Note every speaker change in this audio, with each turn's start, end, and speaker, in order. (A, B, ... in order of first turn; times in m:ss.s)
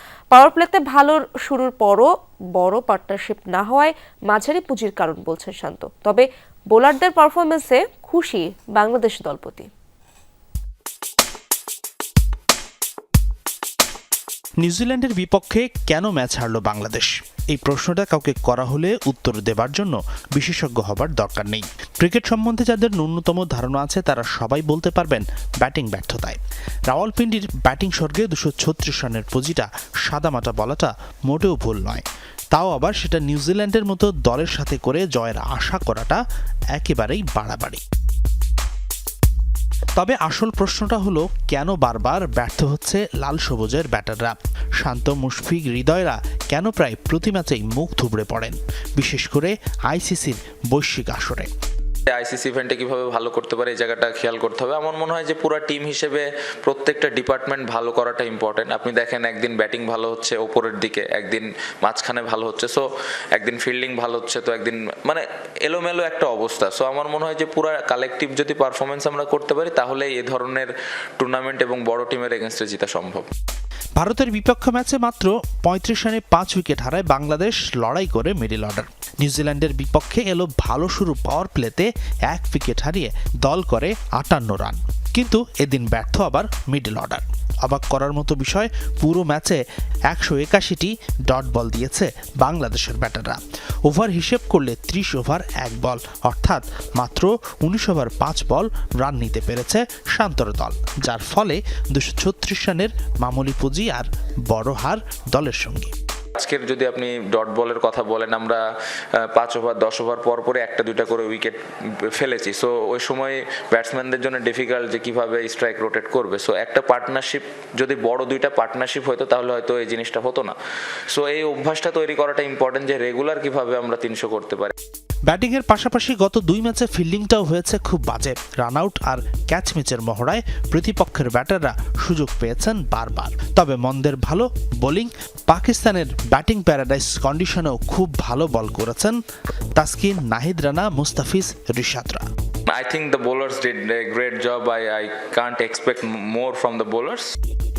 0:00.3-0:09.7 A
0:14.6-0:36.2 B
0:36.7-0:37.8 B
0:40.0-0:51.5 B
0:52.1-1:13.3 C
1:14.0-1:45.9 B
1:46.4-1:48.6 C
1:49.2-2:00.5 C
2:01.1-2:04.7 C
2:05.3-2:19.2 B
2:19.8-2:22.2 B
2:22.7-2:27.4 C